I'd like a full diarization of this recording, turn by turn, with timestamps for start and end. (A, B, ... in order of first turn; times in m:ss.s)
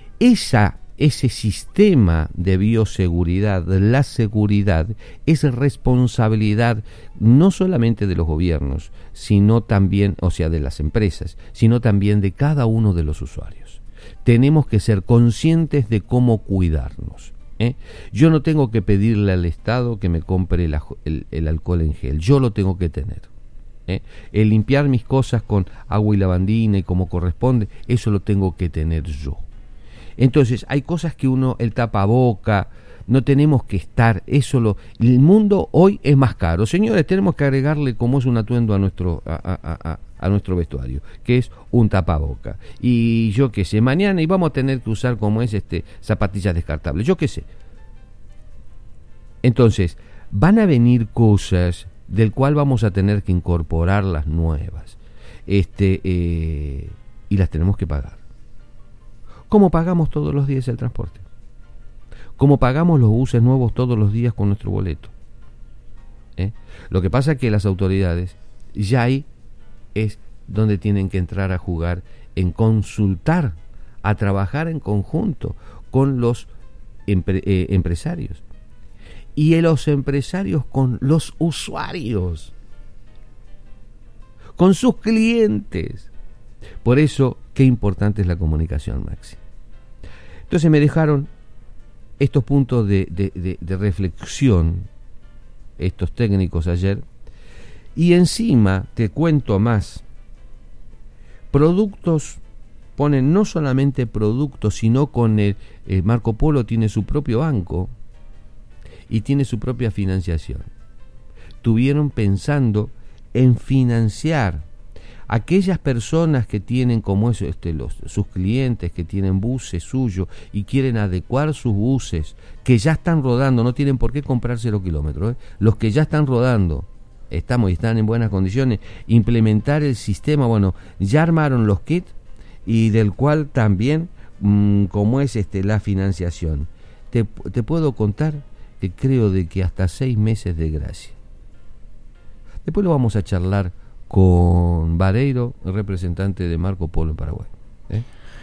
0:00.2-0:23.3 A
0:23.9-0:29.4 A
0:30.2-0:47.5 A
0:49.4-0:58.2 A
0:59.5-1:01.2 A
1:02.4-1:05.1 A
1:06.4-1:09.3 A
1:09.9-1:16.5 A
1:17.1-1:18.4 A
1:19.3-1:22.5 A
1:24.6-1:26.1 A
1:26.8-1:29.4 A
1:30.5-1:31.3 A
1:32.2-1:34.9 A
1:35.8-1:37.0 A
1:37.9-1:40.0 A
1:41.5-1:42.4 A
1:43.0-1:47.9 A
1:49.1-1:50.7 A
1:51.6-1:54.6 A
1:55.3-2:12.1 A
2:12.6-2:21.2 A
2:22.6-2:28.0 A